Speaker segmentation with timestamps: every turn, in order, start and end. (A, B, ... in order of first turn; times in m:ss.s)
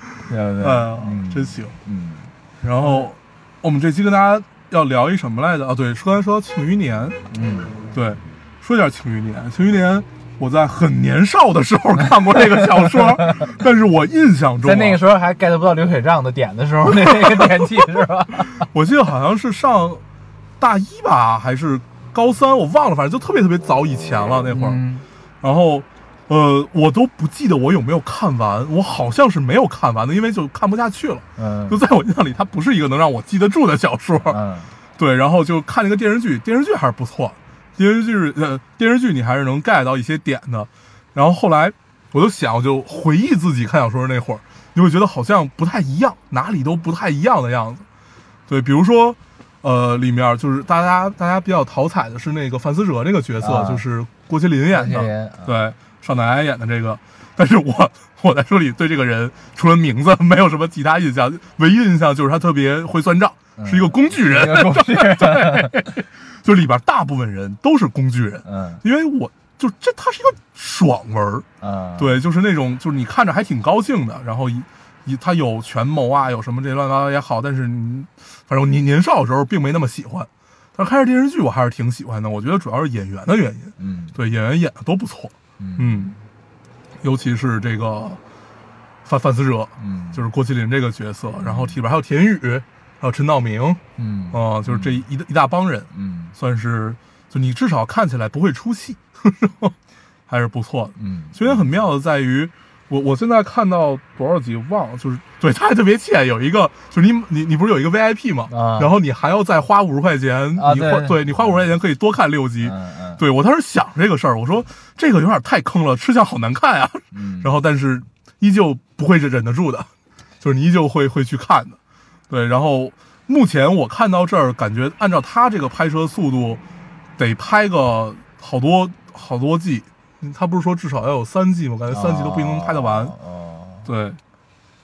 0:00.3-0:03.1 A
0:00.6-0:01.7 B
0:02.6-0:07.2 B
0:07.3-0:07.8 A
0:07.9-0:15.0 B
0:12.9-0:13.5 A
0:14.6-0:18.7 A
0:16.8-0:17.8 B
0:18.5-0:20.0 B
0:20.6-0:24.8 B
0:24.5-0:25.0 A
0:25.4-0:34.4 B
0:31.4-0:31.8 A
0:34.2-0:34.7 A
0:35.0-0:47.8 B
0:48.5-1:11.4 B
0:53.4-0:53.8 A
0:54.7-0:55.5 A
1:03.6-1:05.8 A
1:08.4-1:08.8 A
1:11.6-1:12.2 A
1:12.0-1:26.1 B
1:23.8-1:24.2 A
1:25.6-1:26.2 A
1:27.0-1:28.2 B
1:29.0-1:33.8 B
1:29.8-1:30.2 A
1:31.3-1:31.8 A
1:34.0-1:35.0 A
1:34.3-1:39.7 B
1:35.9-1:36.3 A
1:40.3-1:59.9 B
1:41.0-1:41.7 A
1:48.5-1:48.9 A
1:50.6-1:51.6 A
1:52.6-1:53.2 A
1:57.1-1:57.5 A
2:00.4-2:01.8 B
2:02.3-2:06.6 B
2:07.2-2:13.1 B
2:11.9-2:13.9 A
2:13.8-2:14.2 B